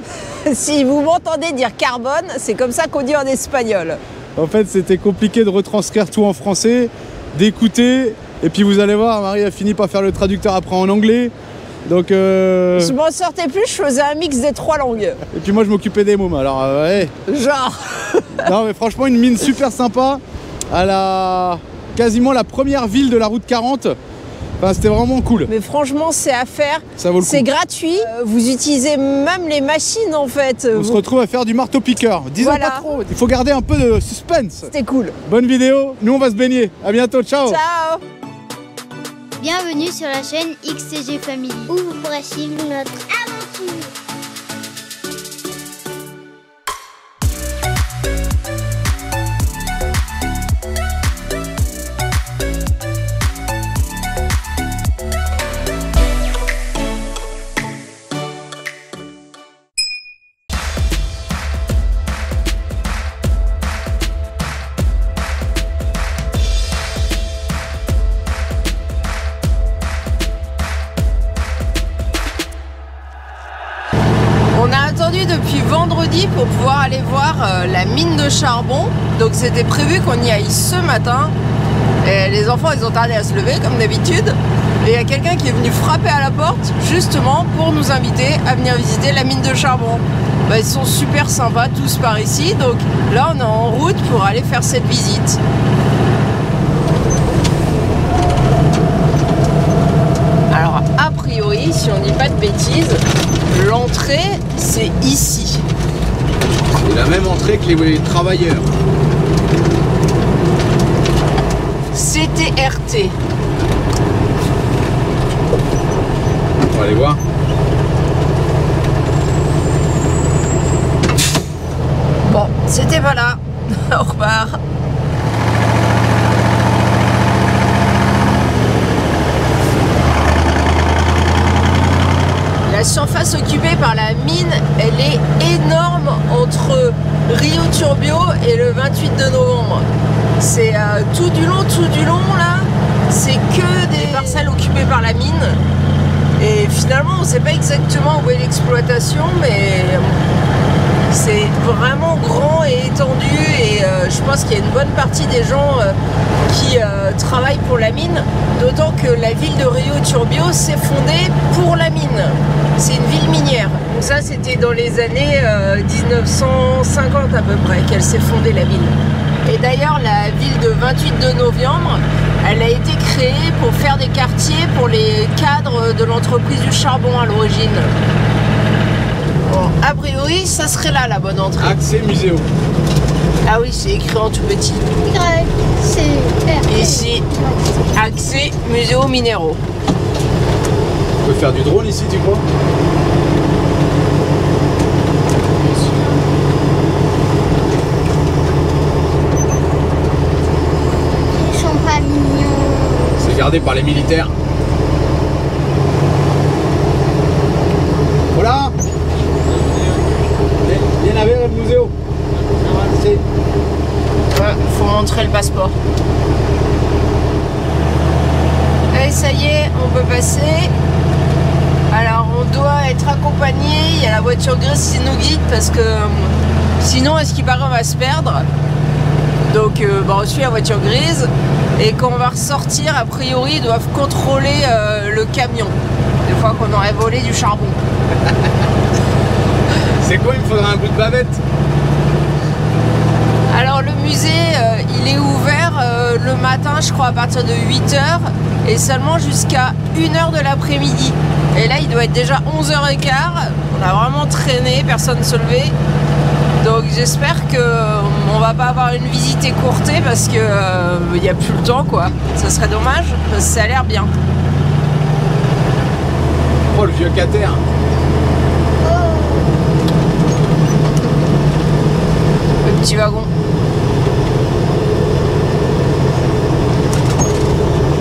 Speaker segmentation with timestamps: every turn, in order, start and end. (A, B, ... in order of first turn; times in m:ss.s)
0:00.2-0:04.0 A
0:04.4-0:11.3 B
0:11.9-0:13.0 B
0:12.8-0:15.2 A
0:15.3-0:17.2 B
0:17.3-0:18.5 A
0:18.4-0:24.0 B
0:24.6-0:25.5 B
0:25.5-0:31.0 A
0:27.0-0:27.5 B
0:30.7-0:34.7 B
0:32.4-0:32.9 A
0:34.6-0:35.2 A
0:35.2-0:37.6 B
0:37.4-0:38.0 A
0:39.4-0:43.9 C
1:14.5-1:21.3 A
1:22.0-1:35.4 A
1:40.5-1:45.6 A
1:46.7-1:48.7 B
1:51.9-1:53.1 A
1:56.7-1:57.2 B
2:02.2-2:04.6 A
2:12.7-2:19.8 A
2:20.4-2:25.6 A
2:26.4-2:30.2 A
2:31.1-2:36.0 A
2:36.5-2:57.9 A
2:59.4-3:01.8 A
3:01.6-3:02.5 B
3:03.4-3:05.0 A
3:05.0-3:07.8 C
3:06.6-3:07.2 A
3:07.9-3:09.6 A
3:11.2-3:12.5 B
3:15.6-3:16.3 C
3:21.3-3:23.3 C
3:23.2-3:24.4 B
3:28.3-3:28.8 B
3:29.5-3:30.0 B
3:30.6-3:31.9 B
3:32.6-3:33.2 B
3:34.3-3:35.8 A
3:38.9-3:40.7 A
3:41.9-3:48.5 A
3:49.5-3:57.8 A
4:00.0-4:01.4 B
4:03.5-4:15.8 A
4:16.6-4:24.1 A
4:26.7-4:27.6 B
4:32.6-4:33.3 A